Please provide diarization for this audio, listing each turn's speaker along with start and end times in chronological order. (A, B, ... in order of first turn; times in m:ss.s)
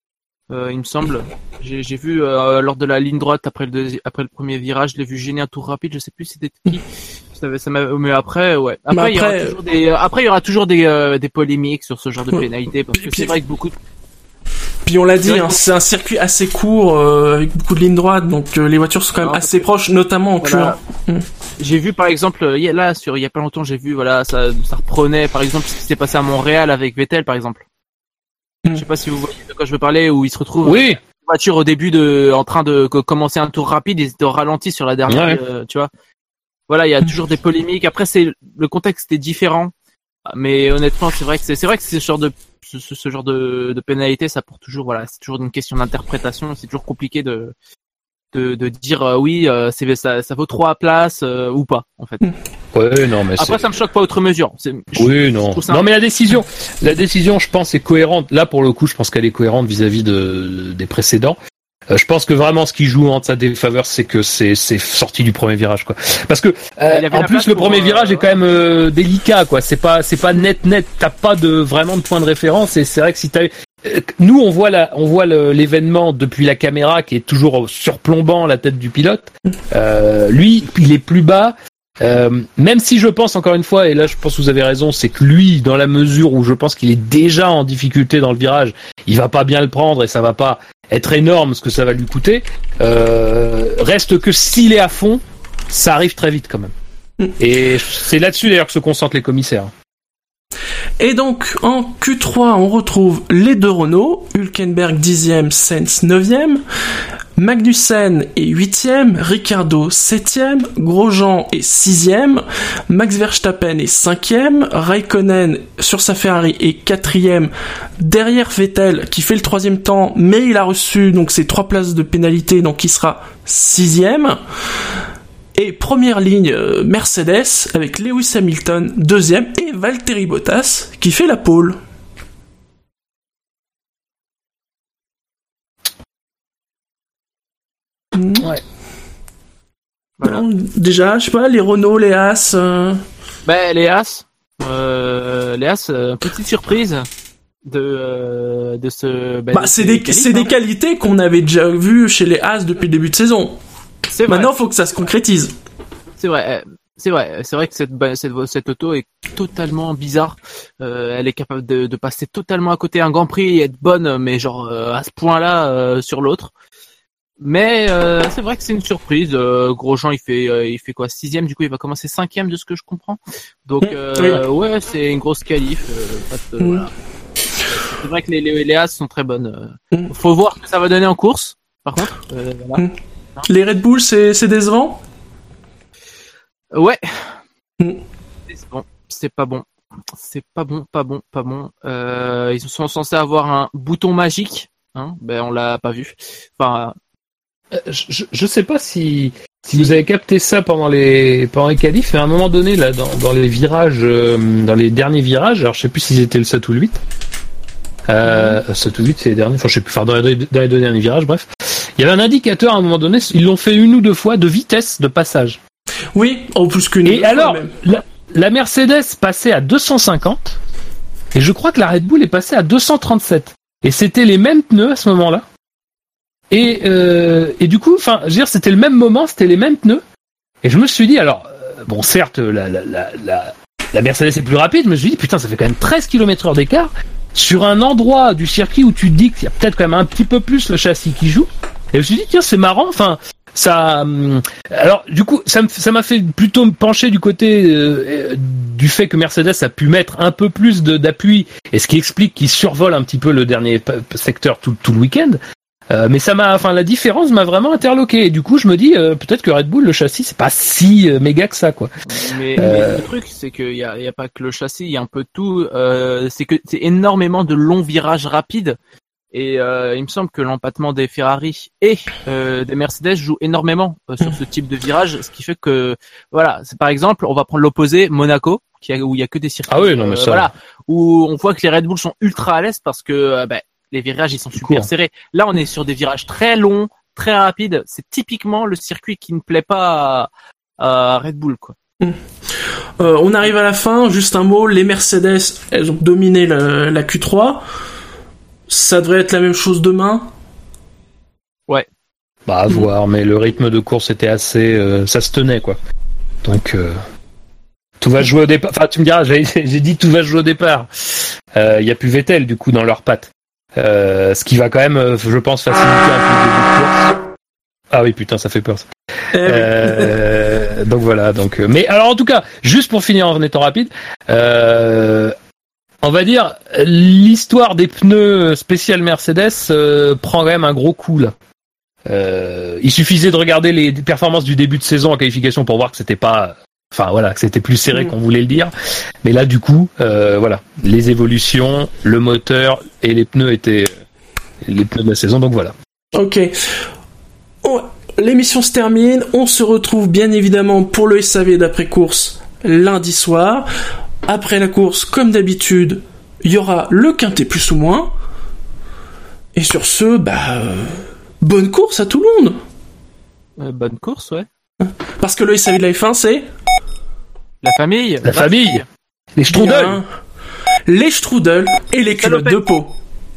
0:00.5-0:13.8 A
0:08.9-0:09.6 B
0:12.3-0:13.3 B
0:14.8-0:21.3 B
0:15.2-0:15.6 A
0:19.2-0:19.6 A
0:20.4-0:20.8 A
0:21.6-0:27.6 A
0:28.7-0:35.9 A
0:30.6-0:31.0 C
0:35.1-0:35.4 C
0:36.7-0:39.7 A
0:40.3-0:47.5 A
0:48.3-0:52.3 A
0:52.7-0:53.7 C
0:53.4-0:55.8 A
0:55.0-1:01.4 C
1:01.9-1:36.7 C
1:06.9-1:08.3 A
1:37.4-1:39.7 C
1:41.0-1:46.6 B
1:47.4-2:04.4 B
2:05.6-2:11.8 B
2:18.1-2:18.5 B
2:20.2-2:23.0 B
2:23.4-2:27.1 A
2:27.7-2:30.5 A
2:29.5-2:33.6 B
2:34.1-2:34.6 A
2:34.3-2:35.5 B
2:36.2-2:46.5 A
2:47.4-2:56.9 A
2:53.8-2:54.4 B
2:56.6-2:56.9 B
2:57.7-3:02.8 A
3:03.5-3:05.0 B
3:06.7-3:07.4 A
3:08.5-3:17.0 A
3:17.7-3:27.0 C
3:28.1-3:35.6 C
3:36.1-3:37.7 B
3:37.0-3:40.6 C
3:41.3-3:45.5 C
3:46.5-3:50.0 C
3:50.6-4:15.4 C
4:15.9-4:21.9 C
4:22.1-4:28.8 A
4:22.6-4:23.1 C
4:29.3-4:51.8 A
4:39.7-4:40.5 C
4:44.6-4:44.9 C
4:53.0-4:57.6 B
4:58.7-5:00.3 B
5:02.5-5:05.8 C
5:06.4-5:07.0 C
5:08.0-5:17.2 C
5:17.9-5:18.9 C
5:19.3-5:20.2 B
5:19.4-5:25.4 C
5:26.0-5:31.4 C
5:32.1-5:38.7 C
5:39.2-5:43.9 C
5:44.6-5:45.8 C
5:46.1-5:46.8 B
5:47.6-5:53.7 B
5:54.3-5:58.1 B
5:59.6-6:02.6 B
6:03.6-6:04.5 A
6:04.8-6:06.5 B
6:07.6-6:08.9 A
6:08.2-6:08.8 C
6:09.4-6:10.0 C
6:09.5-6:10.1 B
6:10.9-6:13.0 B
6:12.1-6:12.6 A